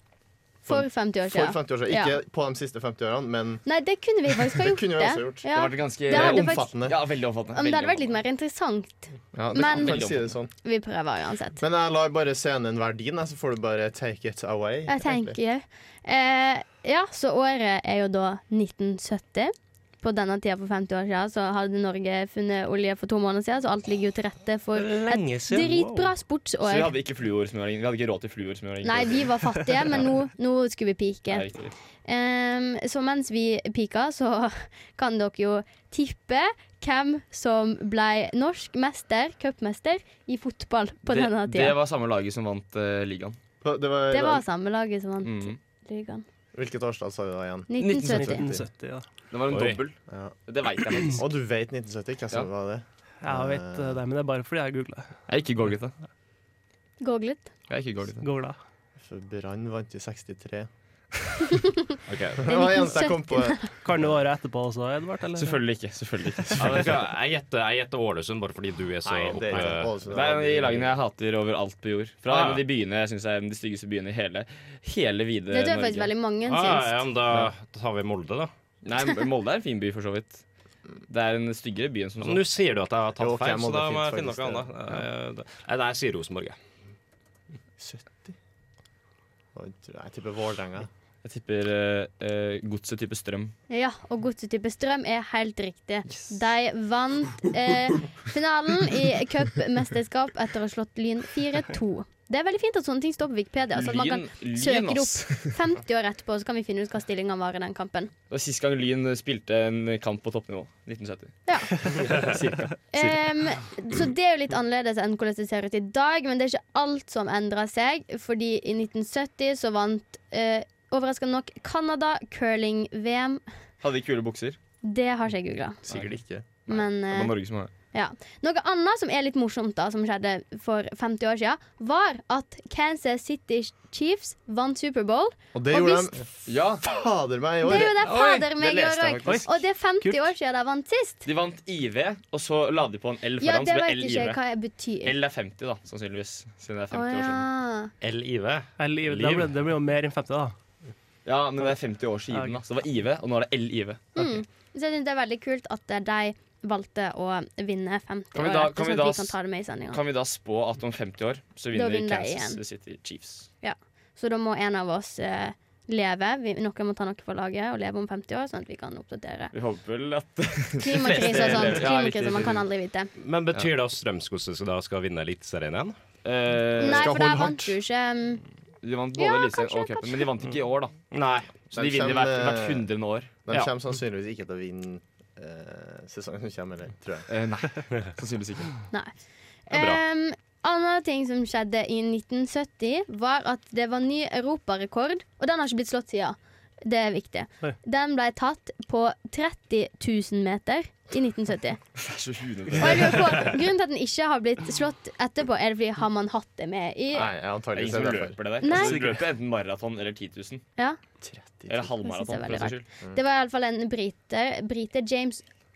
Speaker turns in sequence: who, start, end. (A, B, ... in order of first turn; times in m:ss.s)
0:00.6-0:02.2 A
0:00.7-0:03.6 B
0:03.6-0:06.7 A
0:04.4-0:05.5 B
0:05.5-0:08.1 C
0:06.1-0:07.0 B
0:07.5-0:10.0 A
0:09.3-0:10.5 B
0:09.6-0:10.3 C
0:10.6-0:11.6 A
0:11.6-0:15.4 B
0:14.9-0:26.9 A
0:24.9-0:26.0 D
0:26.6-0:30.0 C
0:28.8-0:31.4 A
0:31.3-0:31.7 C
0:32.0-0:41.8 A
0:41.0-0:43.4 C
0:43.6-0:44.4 B
0:44.1-0:46.2 A
0:45.2-0:45.6 C
0:46.5-0:48.6 B
0:47.7-0:48.5 A
0:47.8-0:48.4 C
0:48.0-0:49.0 D
0:49.3-0:51.2 C
0:49.5-0:49.8 E
0:50.1-0:50.4 B
0:51.1-0:54.0 B
0:53.2-0:55.1 D
0:55.3-0:55.9 C
0:57.0-0:57.5 A
0:57.7-0:58.3 C
0:58.2-0:58.6 D
0:59.0-1:00.7 B
1:02.1-1:02.4 E
1:02.4-1:04.1 B
1:02.5-1:03.6 A
1:03.8-1:05.6 D
1:05.4-1:07.0 C
1:06.6-1:09.9 E
1:09.0-1:11.0 B
1:09.6-1:16.1 C
1:12.2-1:12.6 E
1:15.5-1:17.0 A
1:16.4-1:18.5 E
1:18.8-1:20.4 C
1:21.1-1:22.5 C
1:22.2-1:26.6 E
1:23.2-1:24.8 B
1:27.8-1:28.4 B
1:29.5-1:30.9 B
1:31.2-1:33.5 C
1:33.7-1:48.1 A
1:43.7-1:45.6 C
1:48.3-1:53.2 C
1:51.4-1:52.1 A
1:52.9-2:03.4 A
2:03.8-2:04.6 C
2:04.8-2:05.8 A
2:05.9-2:06.6 B
2:06.7-2:07.3 A
2:06.7-2:07.7 C
2:07.9-2:16.1 A
2:15.5-2:17.9 B
2:16.5-2:16.8 C
2:17.6-2:21.2 A
2:17.7-2:19.6 C
2:21.2-2:24.4 C
2:23.4-2:25.1 A
2:25.0-2:27.4 C
2:26.9-2:27.9 A
2:28.0-2:29.5 E
2:28.8-2:30.5 D
2:31.2-2:34.1 C
2:32.3-2:32.6 D
2:34.2-2:40.0 A
2:38.3-2:39.3 C
2:39.9-2:43.5 C
2:41.7-2:42.6 A
2:43.6-2:49.5 A
2:49.5-2:52.6 C
2:50.8-2:53.1 A
2:53.2-2:56.0 E
2:56.2-2:57.1 C
2:56.8-2:58.4 A
2:56.8-2:57.7 B
2:58.8-3:01.0 C
2:59.2-3:00.3 A
3:01.1-3:01.6 E
3:01.7-3:03.4 C
3:01.7-3:02.9 B
3:03.4-3:07.3 B
3:07.3-3:08.7 C
3:09.7-3:21.8 A
3:09.7-3:10.0 E
3:22.0-3:23.5 C
3:22.8-3:27.2 A
3:27.1-3:29.0 B
3:27.2-3:30.6 C
3:28.6-3:29.0 A
3:31.2-3:31.9 B
3:31.7-3:32.8 C
3:32.0-3:35.4 A